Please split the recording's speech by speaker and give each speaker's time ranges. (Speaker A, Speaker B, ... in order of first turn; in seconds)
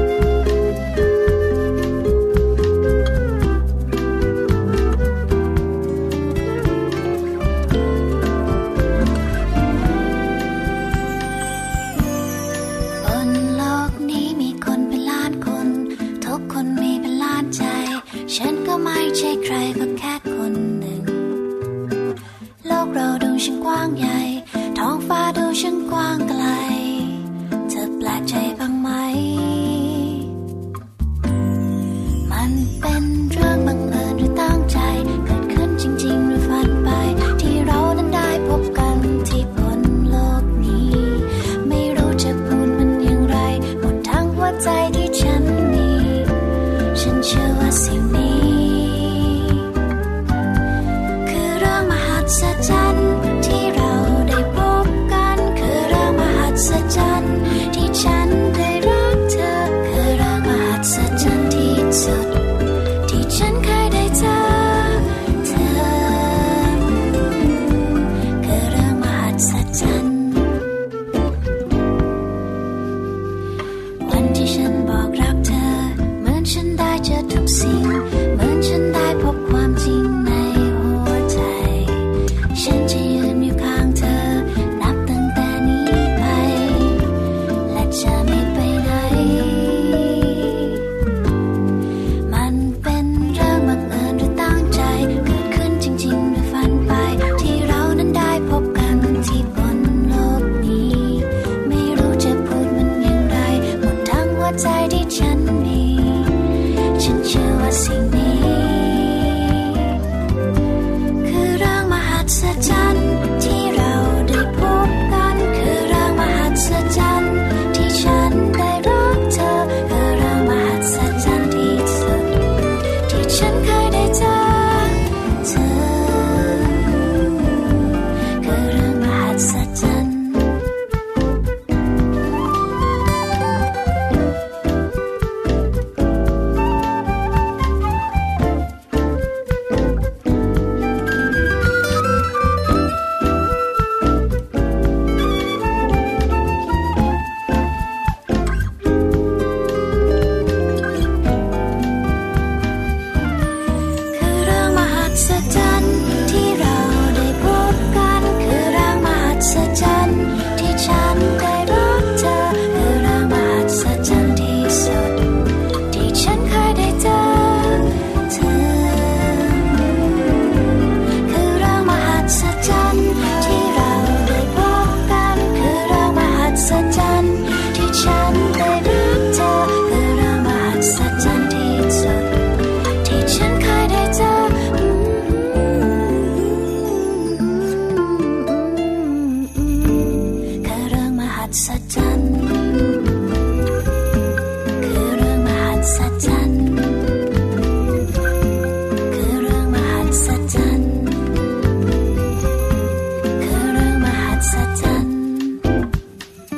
Speaker A: 13.0-21.3, 22.6-30.3, 32.2-46.4, 46.9-49.6, 51.2-62.4, 63.0-70.5, 74.0-87.1, 87.7-90.8, 92.2-110.0, 111.2-122.4, 123.0-130.6, 154.1-165.2, 165.9-170.4, 171.2-182.4, 183.0-193.1, 194.8-197.1, 199.1-201.3, 203.4-205.6